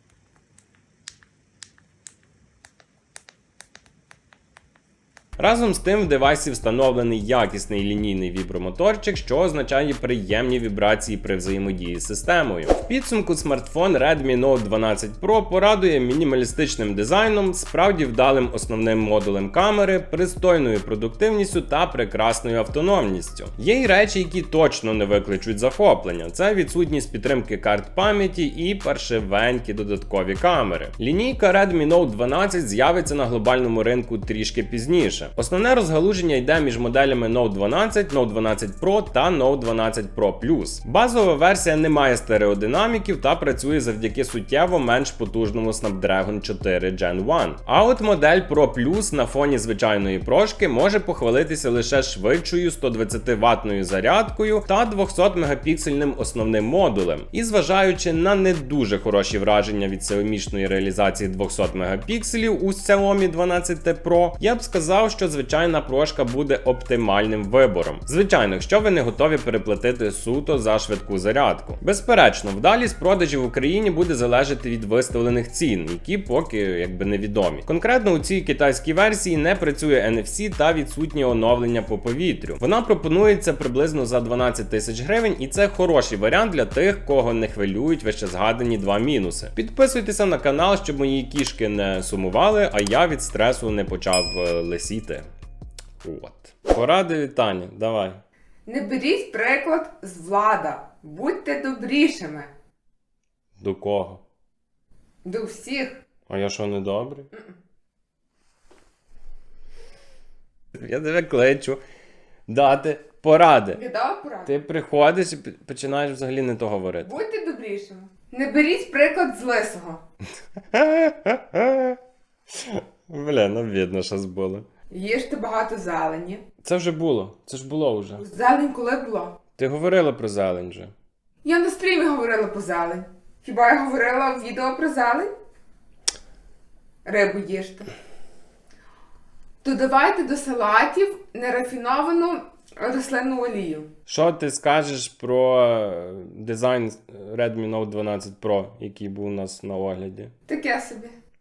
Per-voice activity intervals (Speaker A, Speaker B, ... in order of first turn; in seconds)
Speaker A: 5.4-95.2, 96.0-98.2, 103.6-104.2, 106.3-107.3, 110.7-111.8, 112.5-113.8, 114.5-117.2, 120.7-122.0, 122.5-124.6, 126.6-128.2, 129.6-130.9, 144.1-150.3
Speaker B: 98.7-102.5, 105.2-106.0, 113.7-114.5, 117.0-120.0, 124.9-126.4, 128.2-129.4, 131.4-135.3, 137.0-137.9, 139.6-143.9, 150.5-151.2